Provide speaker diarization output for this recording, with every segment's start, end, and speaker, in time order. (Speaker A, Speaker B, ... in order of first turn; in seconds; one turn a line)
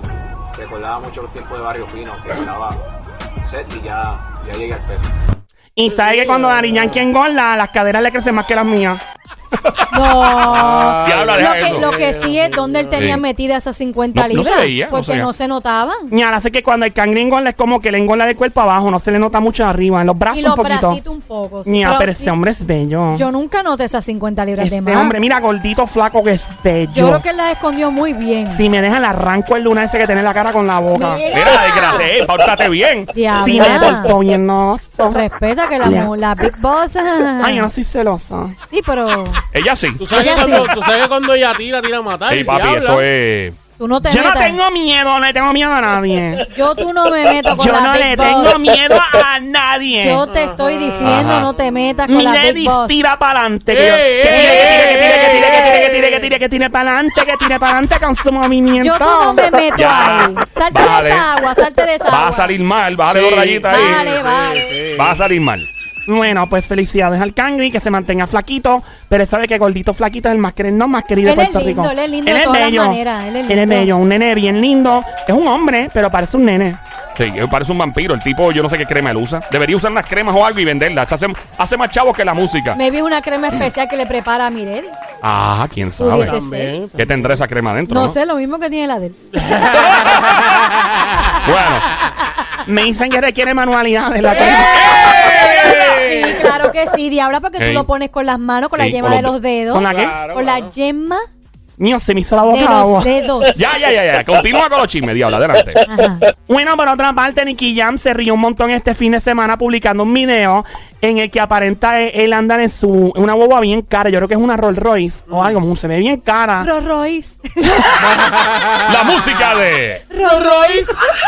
Speaker A: 0.5-2.8
Speaker A: 3.4-5.1
Speaker B: 5.8-9.0
Speaker C: 6.0-7.0
Speaker D: 9.7-10.0
Speaker E: 9.9-16.1
Speaker C: 10.4-13.2
Speaker D: 11.0-11.9
Speaker D: 12.9-13.2
Speaker D: 14.1-15.3
Speaker B: 16.1-21.0
Speaker E: 20.3-22.4
Speaker B: 21.7-23.3
Speaker E: 23.1-25.1
Speaker B: 24.6-27.2
Speaker E: 26.9-28.6
Speaker B: 28.5-31.3
Speaker E: 30.9-32.1
Speaker D: 31.3-34.0
Speaker E: 33.1-34.2
Speaker B: 33.3-35.3
Speaker E: 35.1-37.7
Speaker B: 35.8-36.1
Speaker B: 37.4-38.6
Speaker E: 38.7-39.4
Speaker D: 39.5-40.8
Speaker C: 40.0-43.1
Speaker E: 40.1-40.7
Speaker D: 42.3-43.6
Speaker E: 43.8-44.6
Speaker B: 44.0-46.5
Speaker E: 46.5-48.6
Speaker B: 47.5-50.2
Speaker E: 50.0-53.0
Speaker C: 50.3-51.5
Speaker D: 51.0-51.5
Speaker B: 52.1-59.6
Speaker C: 53.7-56.3
Speaker E: 54.3-55.0
Speaker E: 58.8-62.5
Speaker D: 59.7-61.3
Speaker D: 62.0-64.0
Speaker C: 63.1-65.2
Speaker E: 63.7-64.8
Speaker D: 64.9-65.7
Speaker B: 66.1-76.8
Speaker E: 71.2-73.9
Speaker D: 77.2-82.8
Speaker E: 82.8-84.9
Speaker D: 85.2-86.4
Speaker E: 86.0-86.8
Speaker C: 86.2-87.4
Speaker D: 87.0-88.2
Speaker E: 87.9-89.2
Speaker C: 89.3-91.5
Speaker D: 89.9-90.3
Speaker D: 91.4-91.9
Speaker B: 92.7-95.3
Speaker C: 94.3-96.6
Speaker E: 94.3-101.2
Speaker D: 97.6-97.9
Speaker D: 98.8-99.4
Speaker B: 99.7-100.2
Speaker C: 99.8-100.7
Speaker B: 101.8-103.2
Speaker E: 102.5-103.6
Speaker D: 103.5-105.9
Speaker E: 105.9-106.3
Speaker B: 106.5-116.7
Speaker C: 115.3-115.5
Speaker E: 116.6-117.9
Speaker C: 118.0-119.1
Speaker D: 118.8-120.0
Speaker E: 120.1-121.0
Speaker C: 120.2-120.9